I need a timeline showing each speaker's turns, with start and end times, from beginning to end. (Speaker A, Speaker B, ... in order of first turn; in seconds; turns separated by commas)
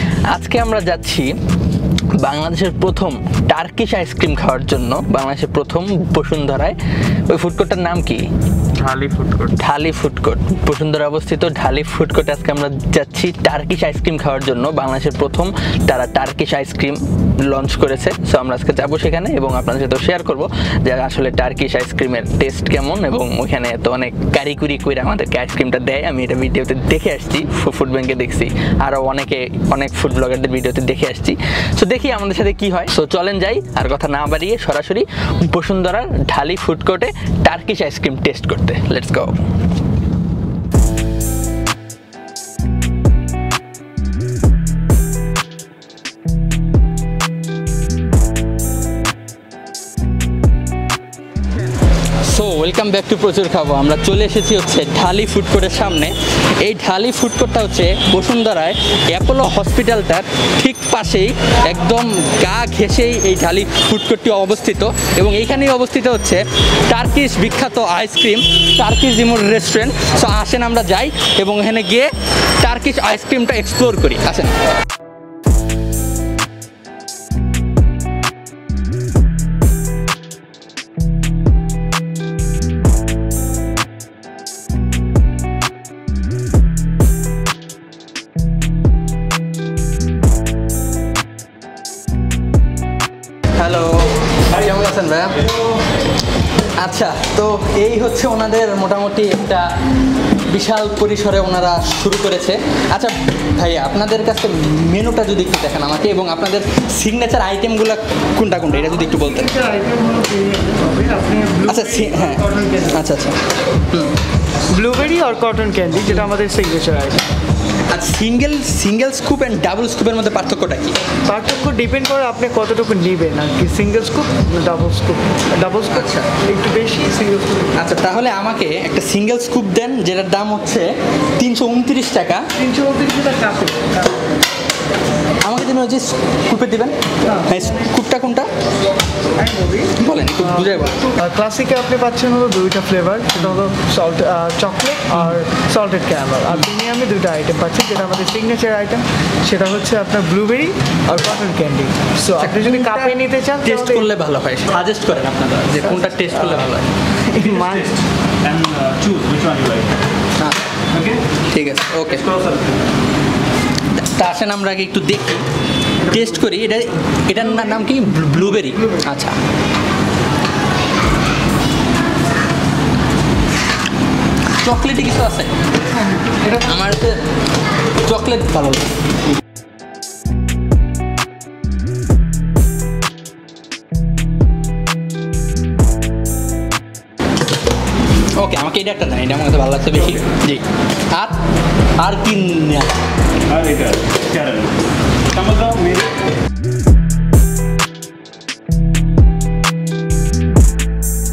Speaker A: 0.3-1.3, Speaker A: 2.2-6.8, Speaker A: 7.3-8.3, Speaker A: 8.8-39.4, Speaker A: 52.2-74.5, Speaker A: 93.6-95.5, Speaker A: 96.8-99.7, Speaker A: 100.5-109.5, Speaker B: 109.3-113.0, Speaker A: 111.6-113.4, Speaker A: 113.9-114.2, Speaker B: 114.7-117.3, Speaker A: 117.9-121.0, Speaker B: 121.2-127.8, Speaker A: 125.9-126.3, Speaker A: 127.8-132.5, Speaker B: 132.6-134.2, Speaker A: 135.4-138.5, Speaker B: 139.4-139.9, Speaker A: 140.0-141.0, Speaker B: 140.7-154.1, Speaker A: 152.4-156.9, Speaker B: 157.3-157.9, Speaker C: 157.4-159.9, Speaker C: 160.9-161.2, Speaker A: 161.5-162.2, Speaker C: 162.1-162.8, Speaker A: 163.9-165.4, Speaker A: 166.0-169.4, Speaker A: 174.6-175.5, Speaker A: 176.4-177.2, Speaker A: 178.0-178.9, Speaker A: 188.4-191.4, Speaker C: 189.9-190.2, Speaker A: 192.0-192.9, Speaker C: 193.5-194.8, Speaker C: 195.3-196.1